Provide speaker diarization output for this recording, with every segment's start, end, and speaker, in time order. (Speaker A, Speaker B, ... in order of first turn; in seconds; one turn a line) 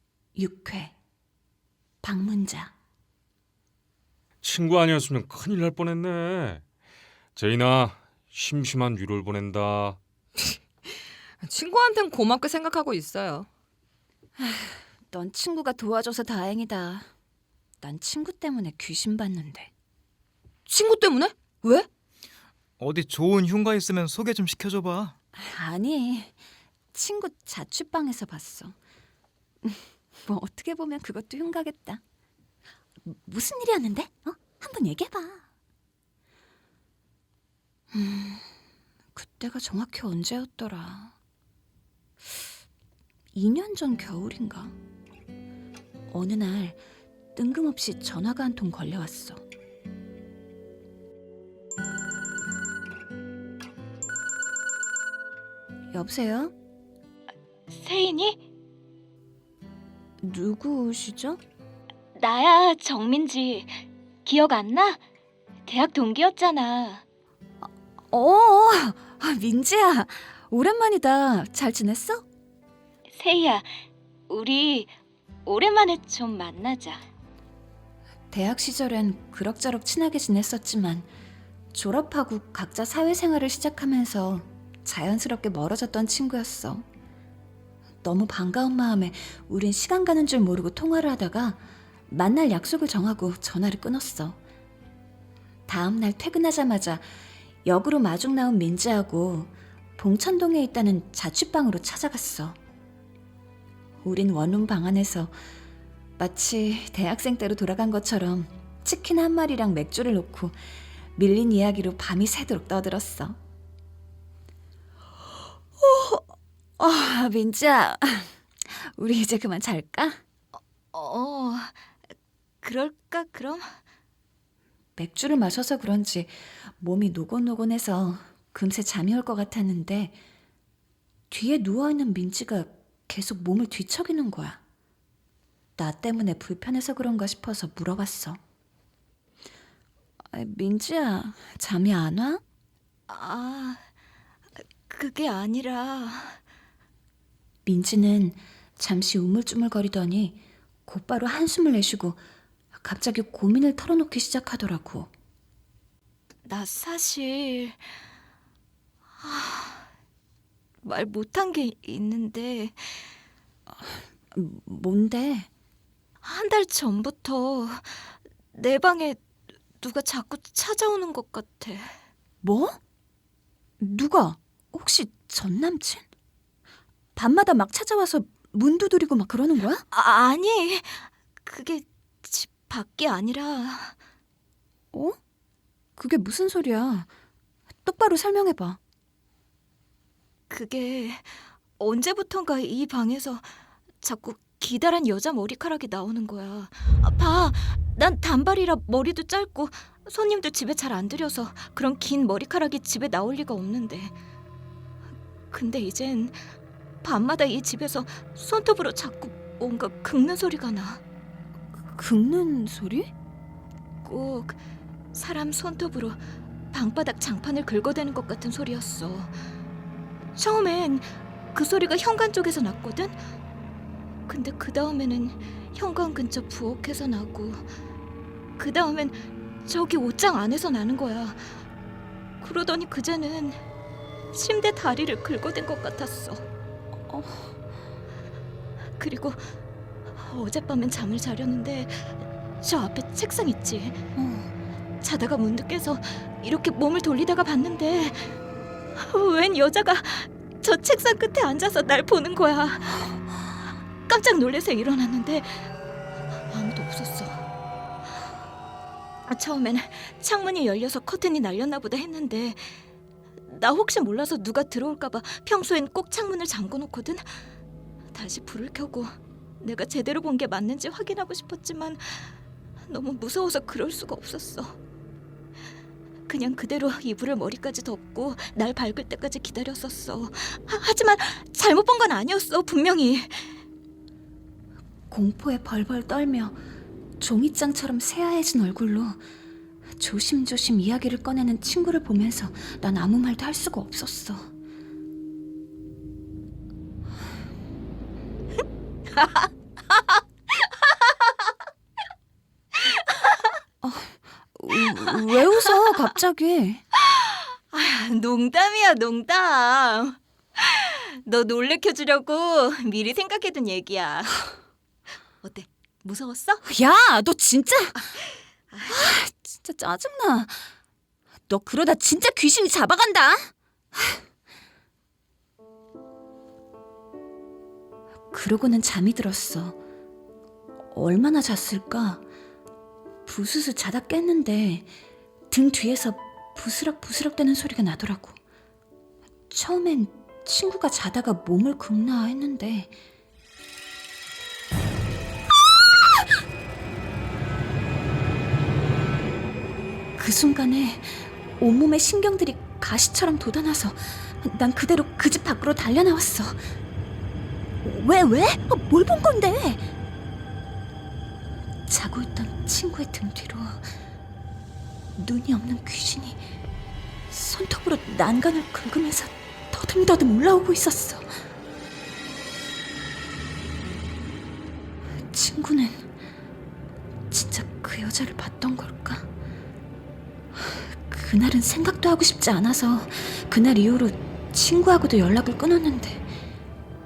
Speaker A: 0.3-0.9
Speaker A: 2.0-2.7
Speaker B: 4.4-6.6
Speaker B: 7.4-10.0
Speaker C: 11.4-13.5
Speaker A: 14.4-17.1
Speaker A: 17.8-19.7
Speaker C: 20.7-21.9
Speaker D: 22.8-25.2
Speaker A: 25.4-26.4
Speaker A: 26.9-28.8
Speaker A: 29.6-32.0
Speaker A: 33.0-35.4
Speaker A: 37.9-38.5
Speaker A: 39.1-41.1
Speaker A: 43.3-44.8
Speaker A: 46.1-46.8
Speaker A: 47.4-49.4
Speaker A: 55.9-56.5
Speaker E: 57.7-58.4
Speaker A: 60.2-61.4
Speaker E: 62.2-63.7
Speaker E: 64.2-65.0
Speaker E: 65.7-67.0
Speaker A: 68.1-72.2
Speaker E: 73.1-73.7
Speaker E: 74.3-75.0
Speaker E: 75.5-77.1
Speaker A: 78.3-81.1
Speaker A: 81.7-86.8
Speaker A: 88.0-94.4
Speaker A: 95.7-97.0
Speaker A: 97.7-102.6
Speaker A: 104.0-105.3
Speaker A: 106.2-110.6
Speaker A: 111.2-113.4
Speaker A: 115.8-120.2
Speaker E: 120.5-121.8
Speaker E: 122.6-123.7
Speaker A: 125.0-130.2
Speaker A: 131.3-134.6
Speaker A: 135.8-138.4
Speaker A: 140.3-142.4
Speaker E: 143.1-143.8
Speaker E: 144.9-146.4
Speaker A: 147.7-155.1
Speaker E: 156.4-157.8
Speaker E: 159.2-159.9
Speaker E: 160.8-163.0
Speaker A: 163.7-165.5
Speaker E: 166.2-169.2
Speaker E: 169.8-171.9
Speaker A: 172.4-172.8
Speaker A: 173.8-176.1
Speaker A: 177.2-179.8
Speaker E: 179.9-183.9
Speaker A: 184.9-185.2
Speaker A: 186.0-187.1
Speaker A: 187.8-188.8
Speaker E: 190.5-193.5
Speaker E: 194.0-204.1
Speaker E: 205.5-211.0
Speaker A: 211.8-213.1
Speaker E: 214.0-214.6
Speaker E: 215.1-216.2
Speaker E: 216.7-219.3
Speaker E: 220.3-223.2
Speaker E: 224.3-227.7
Speaker E: 228.6-231.6
Speaker E: 232.4-233.6
Speaker E: 234.3-236.4
Speaker A: 237.1-237.5
Speaker E: 239.0-239.5
Speaker E: 240.1-244.0
Speaker A: 244.2-244.5
Speaker E: 245.0-248.4
Speaker E: 249.0-253.2
Speaker E: 254.1-255.7
Speaker E: 256.5-257.5
Speaker E: 259.3-262.8
Speaker E: 263.5-267.3
Speaker E: 268.1-272.3
Speaker E: 272.9-274.8
Speaker E: 276.3-283.5
Speaker A: 285.1-286.6
Speaker A: 287.2-289.2
Speaker A: 290.0-294.5
Speaker E: 299.2-299.4
Speaker E: 302.9-303.3
Speaker A: 303.8-306.8
Speaker E: 307.1-314.5
Speaker E: 315.4-316.6
Speaker A: 316.6-318.0
Speaker A: 318.9-320.7
Speaker A: 321.5-324.2
Speaker A: 328.3-329.8
Speaker A: 330.9-332.2
Speaker A: 333.3-334.9
Speaker A: 335.5-338.4
Speaker A: 339.5-342.9
Speaker A: 350.2-356.6
Speaker A: 357.8-359.8
Speaker A: 361.9-363.9
Speaker A: 365.2-366.4
Speaker A: 367.3-371.3
Speaker A: 375.2-376.1
Speaker A: 377.3-379.3
Speaker A: 380.6-386.3